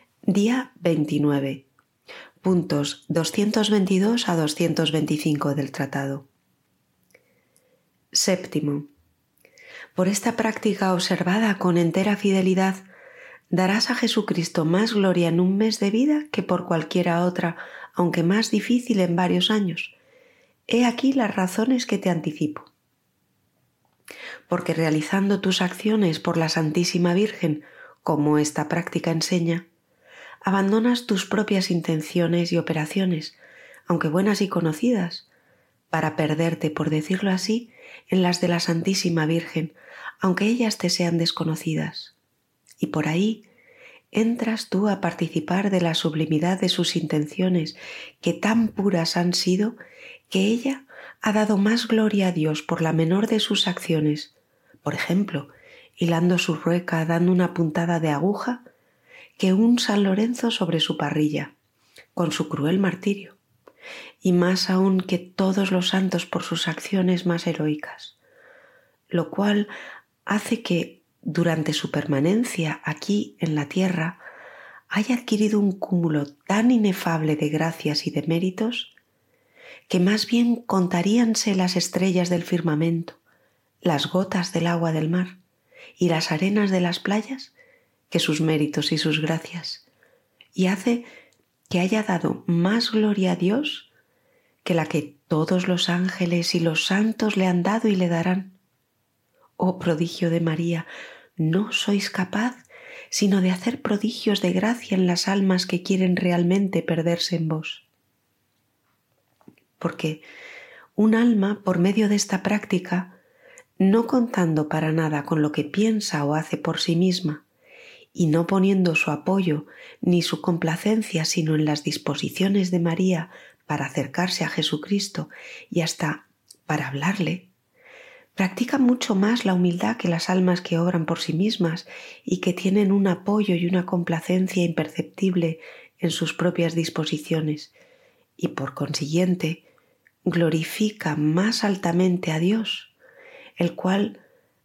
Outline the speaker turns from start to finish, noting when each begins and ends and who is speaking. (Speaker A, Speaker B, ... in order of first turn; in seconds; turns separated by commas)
Speaker A: 0.3-1.7, Speaker A: 2.4-6.3, Speaker A: 8.1-8.9, Speaker A: 10.0-12.8, Speaker A: 13.5-19.9, Speaker A: 20.7-22.7, Speaker A: 24.5-29.7, Speaker A: 30.4-35.3, Speaker A: 35.9-42.1, Speaker A: 42.8-43.5, Speaker A: 44.1-49.8, Speaker A: 50.3-54.3, Speaker A: 54.8-58.6, Speaker A: 59.4-61.5, Speaker A: 62.1-63.4, Speaker A: 64.2-68.2, Speaker A: 69.1-69.7, Speaker A: 70.3-74.2, Speaker A: 74.9-78.9, Speaker A: 79.9-83.2, Speaker A: 83.8-85.4, Speaker A: 86.0-87.5, Speaker A: 88.1-89.8, Speaker A: 90.5-91.1, Speaker A: 91.7-93.9, Speaker A: 94.6-98.6, Speaker A: 99.6-107.9, Speaker A: 109.8-110.2, Speaker A: 111.0-113.2, Speaker A: 113.8-117.4, Speaker A: 118.1-127.5, Speaker A: 128.4-137.7, Speaker A: 138.4-139.7, Speaker A: 140.2-142.9, Speaker A: 143.6-144.2